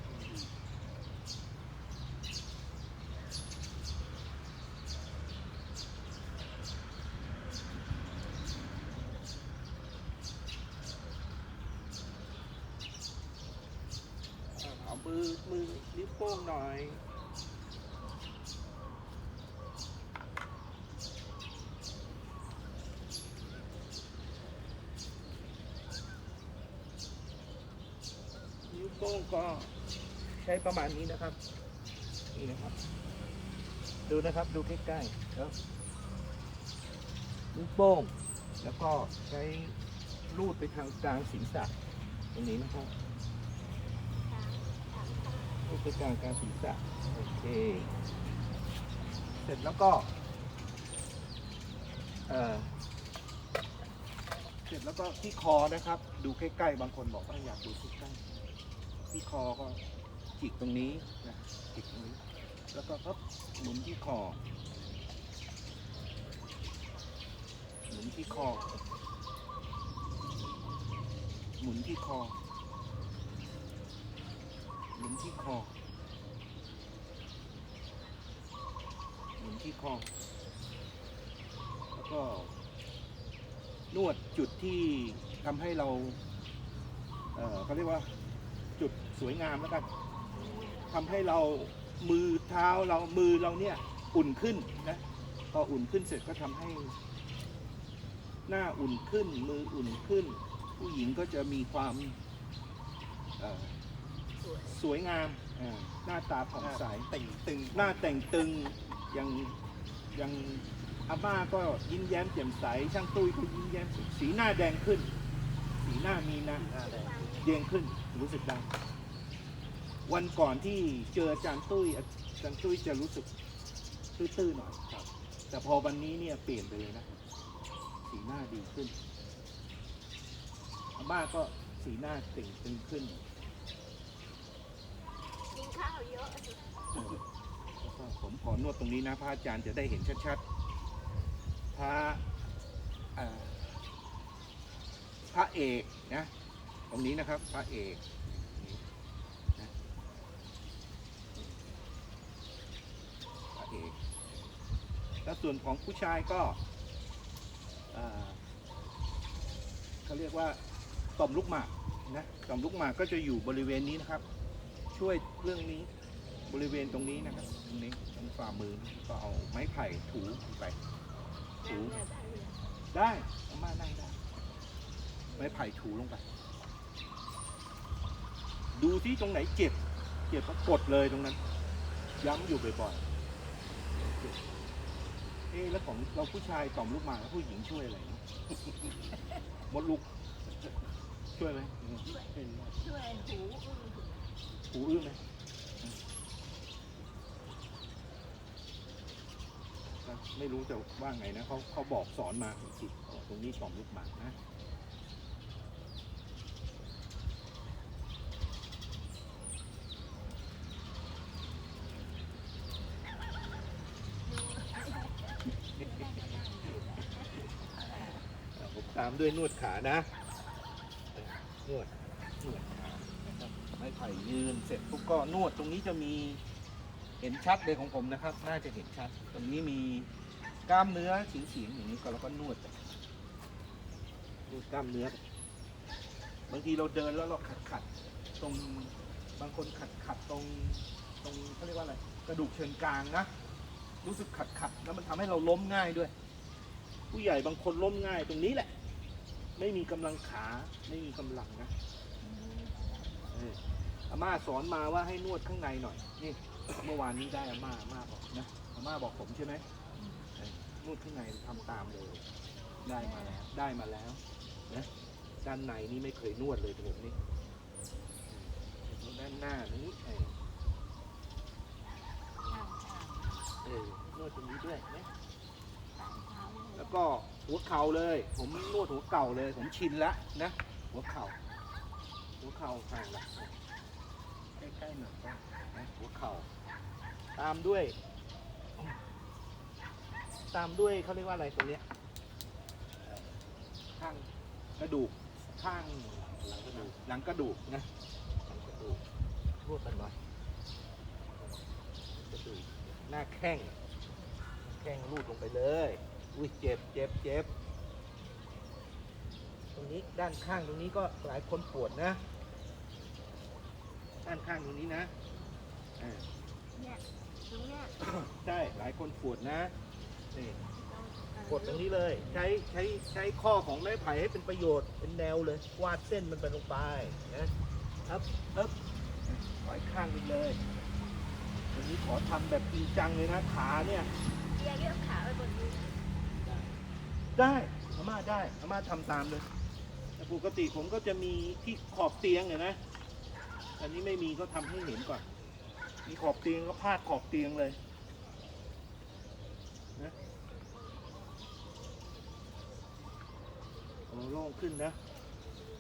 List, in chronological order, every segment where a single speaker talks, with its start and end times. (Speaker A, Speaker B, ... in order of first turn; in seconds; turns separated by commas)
Speaker A: 0.1-0.5, Speaker B: 14.6-17.0, Speaker B: 28.7-29.7, Speaker B: 30.4-31.4, Speaker B: 32.3-32.8, Speaker B: 34.1-35.5, Speaker B: 37.5-39.7, Speaker B: 40.3-41.7, Speaker B: 42.3-42.9, Speaker C: 44.3-45.7, Speaker B: 45.6-47.9, Speaker B: 49.4-50.1, Speaker B: 52.3-52.7, Speaker B: 54.7-58.2, Speaker B: 59.1-59.8, Speaker B: 60.4-62.2, Speaker B: 62.7-64.4, Speaker B: 67.9-68.6, Speaker C: 68.0-68.8, Speaker B: 71.6-72.4, Speaker B: 75.0-75.7, Speaker B: 79.4-80.1, Speaker B: 82.0-82.5, Speaker B: 83.9-86.2, Speaker B: 87.3-88.1, Speaker B: 88.8-89.9, Speaker C: 90.3-91.3, Speaker B: 90.9-95.0, Speaker B: 95.5-96.9, Speaker B: 98.5-102.2, Speaker B: 103.4-103.8, Speaker C: 104.4-104.8, Speaker B: 104.7-107.1, Speaker A: 106.6-108.3, Speaker B: 107.7-109.6, Speaker B: 110.2-115.1, Speaker B: 115.8-116.7, Speaker A: 116.6-117.3, Speaker C: 116.7-117.5, Speaker B: 117.4-118.7, Speaker B: 120.1-123.3, Speaker B: 124.2-124.8, Speaker B: 125.5-127.1, Speaker B: 128.1-128.9, Speaker B: 131.0-133.2, Speaker C: 135.5-137.0, Speaker B: 137.8-140.4, Speaker B: 141.7-142.2, Speaker B: 143.2-143.8, Speaker B: 145.3-146.3, Speaker B: 146.9-148.8, Speaker B: 153.5-153.9, Speaker B: 155.2-156.6, Speaker B: 157.9-158.4, Speaker B: 160.1-160.6, Speaker B: 161.2-164.2, Speaker B: 164.9-165.9, Speaker B: 166.5-170.8, Speaker C: 171.6-172.6, Speaker B: 171.7-172.0, Speaker B: 172.9-174.2, Speaker B: 175.4-176.2, Speaker B: 178.7-181.4, Speaker B: 182.2-183.0, Speaker B: 184.0-184.4, Speaker B: 185.5-188.2, Speaker B: 189.7-190.1, Speaker B: 191.4-192.1, Speaker C: 192.0-194.3, Speaker A: 192.3-192.8, Speaker B: 194.7-195.2, Speaker B: 200.0-204.4, Speaker C: 214.2-218.2, Speaker B: 218.6-220.1, Speaker B: 221.1-226.4, Speaker B: 227.2-230.1, Speaker B: 230.7-233.0, Speaker B: 234.5-235.2, Speaker B: 236.5-237.9, Speaker B: 238.4-243.3, Speaker B: 244.0-246.1, Speaker B: 247.1-248.7, Speaker B: 249.6-251.7, Speaker C: 252.2-253.1, Speaker B: 253.3-259.6, Speaker C: 260.0-260.2, Speaker B: 260.4-262.2, Speaker B: 262.8-264.9, Speaker C: 262.9-263.4, Speaker B: 265.4-267.2, Speaker B: 268.3-270.3, Speaker C: 272.5-273.4, Speaker B: 273.6-275.1, Speaker C: 276.0-277.0, Speaker B: 276.7-281.4, Speaker B: 282.4-283.6, Speaker B: 284.6-286.5, Speaker B: 287.4-288.0, Speaker B: 290.5-291.8, Speaker B: 293.0-293.4, Speaker B: 294.0-297.9, Speaker A: 296.2-296.9, Speaker B: 298.5-299.0, Speaker B: 299.6-300.2, Speaker B: 302.1-303.8, Speaker B: 304.6-307.5, Speaker B: 309.8-312.2, Speaker B: 314.2-315.1, Speaker B: 316.0-316.3, Speaker C: 316.8-317.9, Speaker B: 318.0-319.7, Speaker B: 320.3-320.6, Speaker C: 320.7-322.4, Speaker B: 321.4-327.5, Speaker B: 328.1-328.8, Speaker B: 329.3-330.6, Speaker B: 331.7-334.1, Speaker C: 334.5-336.0, Speaker B: 337.4-339.5, Speaker B: 340.2-342.8, Speaker B: 343.8-345.2, Speaker B: 346.1-347.8, Speaker B: 354.1-355.0